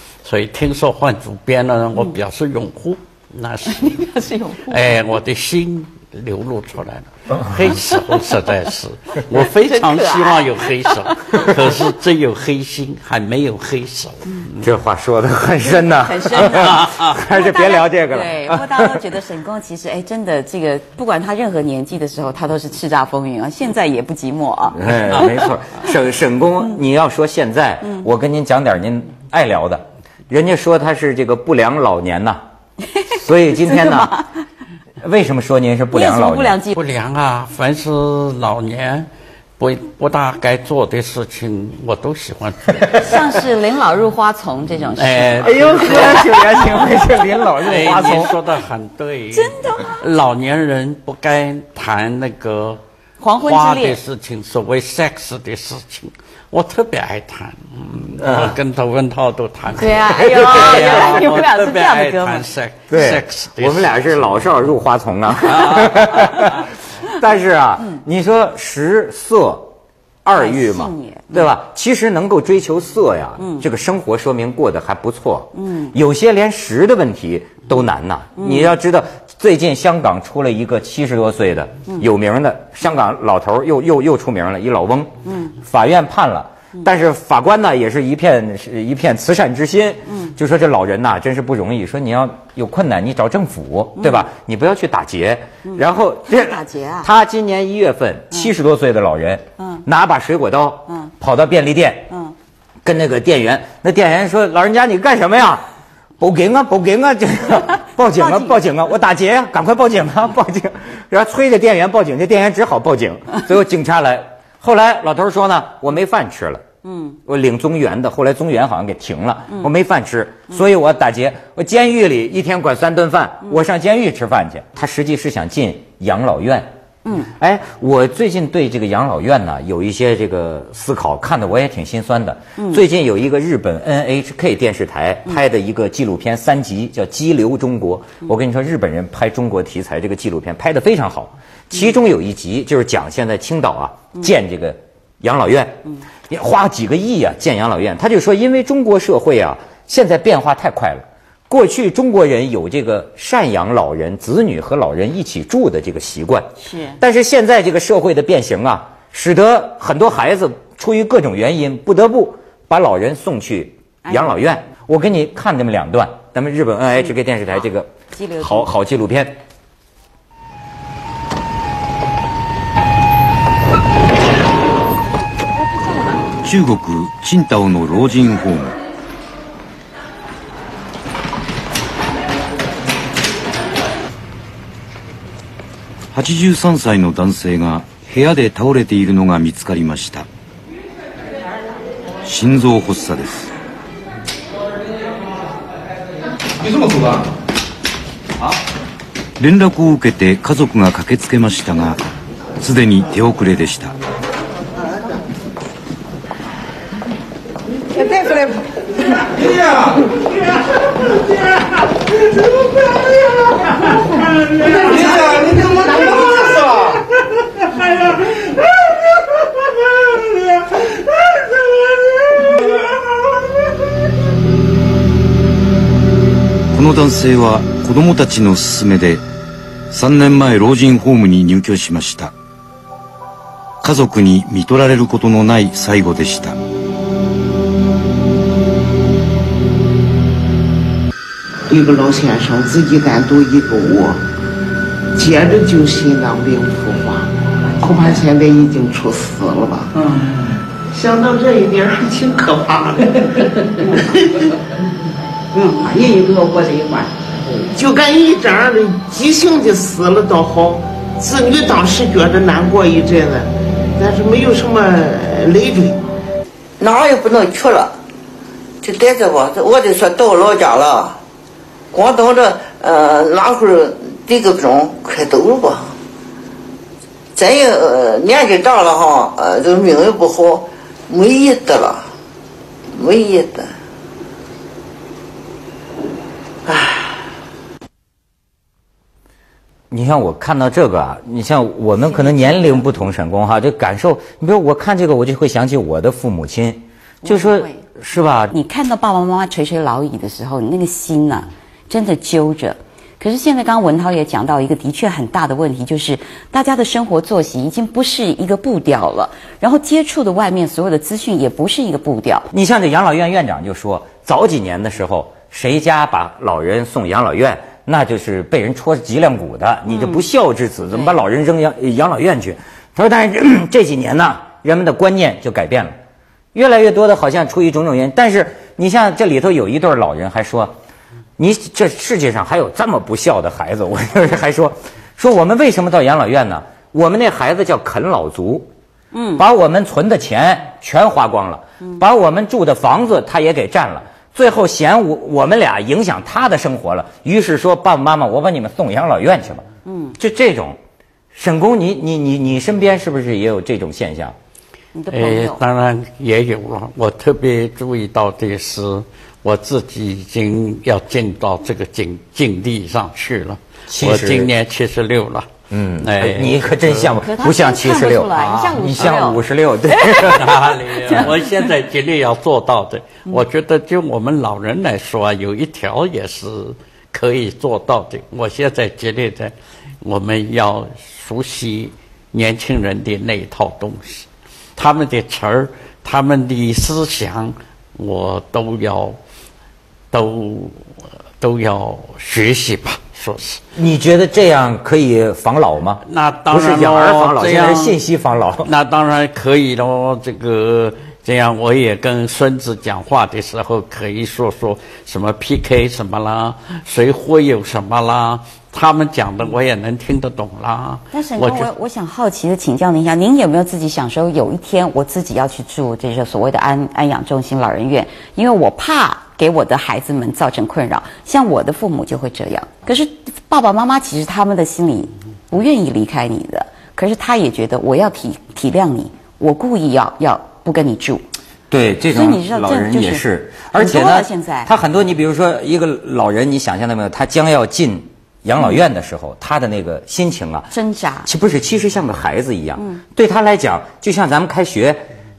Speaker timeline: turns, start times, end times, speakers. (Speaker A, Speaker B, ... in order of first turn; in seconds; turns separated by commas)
Speaker A: 0.2-4.1, Speaker B: 3.7-5.0, Speaker A: 4.7-14.7, Speaker B: 9.4-11.5, Speaker C: 14.6-19.0, Speaker B: 15.7-25.4, Speaker A: 16.5-17.2, Speaker C: 24.8-32.4, Speaker C: 33.1-34.1, Speaker B: 33.6-34.3, Speaker C: 35.0-36.6, Speaker B: 35.9-36.8, Speaker A: 36.7-39.1, Speaker A: 39.6-43.0, Speaker B: 43.0-46.3, Speaker A: 45.0-46.6, Speaker C: 45.4-48.3, Speaker A: 47.6-52.8, Speaker B: 49.3-50.0, Speaker B: 53.2-54.0, Speaker A: 53.4-64.5, Speaker C: 58.2-58.5, Speaker B: 59.8-62.5, Speaker C: 60.1-61.1, Speaker C: 62.9-69.7, Speaker A: 65.4-66.5, Speaker C: 70.2-102.1, Speaker B: 70.4-71.5, Speaker B: 73.4-73.6, Speaker B: 75.5-76.0, Speaker B: 78.4-78.8, Speaker B: 85.3-85.6, Speaker B: 95.7-97.1, Speaker B: 99.6-99.8, Speaker B: 102.1-102.3, Speaker C: 102.8-105.7, Speaker C: 106.2-116.6, Speaker B: 108.0-108.6, Speaker B: 116.8-117.2, Speaker C: 117.3-169.4, Speaker B: 127.0-127.3, Speaker B: 156.6-157.0, Speaker B: 164.1-164.4, Speaker B: 168.1-168.7, Speaker D: 176.4-178.8, Speaker D: 186.1-190.3, Speaker D: 192.2-193.5, Speaker D: 199.4-202.0, Speaker D: 202.6-203.9, Speaker E: 215.1-216.2, Speaker D: 226.7-229.2, Speaker D: 229.9-232.3, Speaker D: 233.8-236.6, Speaker E: 241.7-244.2, Speaker E: 245.2-250.0, Speaker E: 250.9-254.4, Speaker E: 257.7-266.0, Speaker F: 266.8-268.0, Speaker F: 268.8-271.2, Speaker F: 271.9-276.0, Speaker F: 277.4-282.1, Speaker F: 282.9-283.7, Speaker F: 286.7-287.2, Speaker C: 289.9-298.6, Speaker B: 292.1-292.9, Speaker B: 297.2-297.8, Speaker B: 298.5-312.5, Speaker C: 312.5-326.0, Speaker B: 319.9-320.2, Speaker C: 326.5-330.8, Speaker C: 331.4-338.7, Speaker B: 339.1-339.4, Speaker C: 339.4-349.7, Speaker B: 349.9-350.2, Speaker C: 350.2-350.8, Speaker C: 351.3-354.4, Speaker B: 354.9-355.6, Speaker A: 355.1-367.1, Speaker C: 363.9-364.5, Speaker C: 365.7-370.5, Speaker B: 367.1-369.4, Speaker B: 369.9-370.4, Speaker A: 370.2-389.2, Speaker B: 370.9-371.3, Speaker A: 390.1-393.6, Speaker C: 393.8-398.7, Speaker A: 396.0-398.0, Speaker A: 398.6-411.7, Speaker B: 411.1-431.2, Speaker C: 431.7-440.7, Speaker B: 432.1-433.2, Speaker B: 433.8-434.7, Speaker B: 440.7-441.3, Speaker C: 441.2-445.1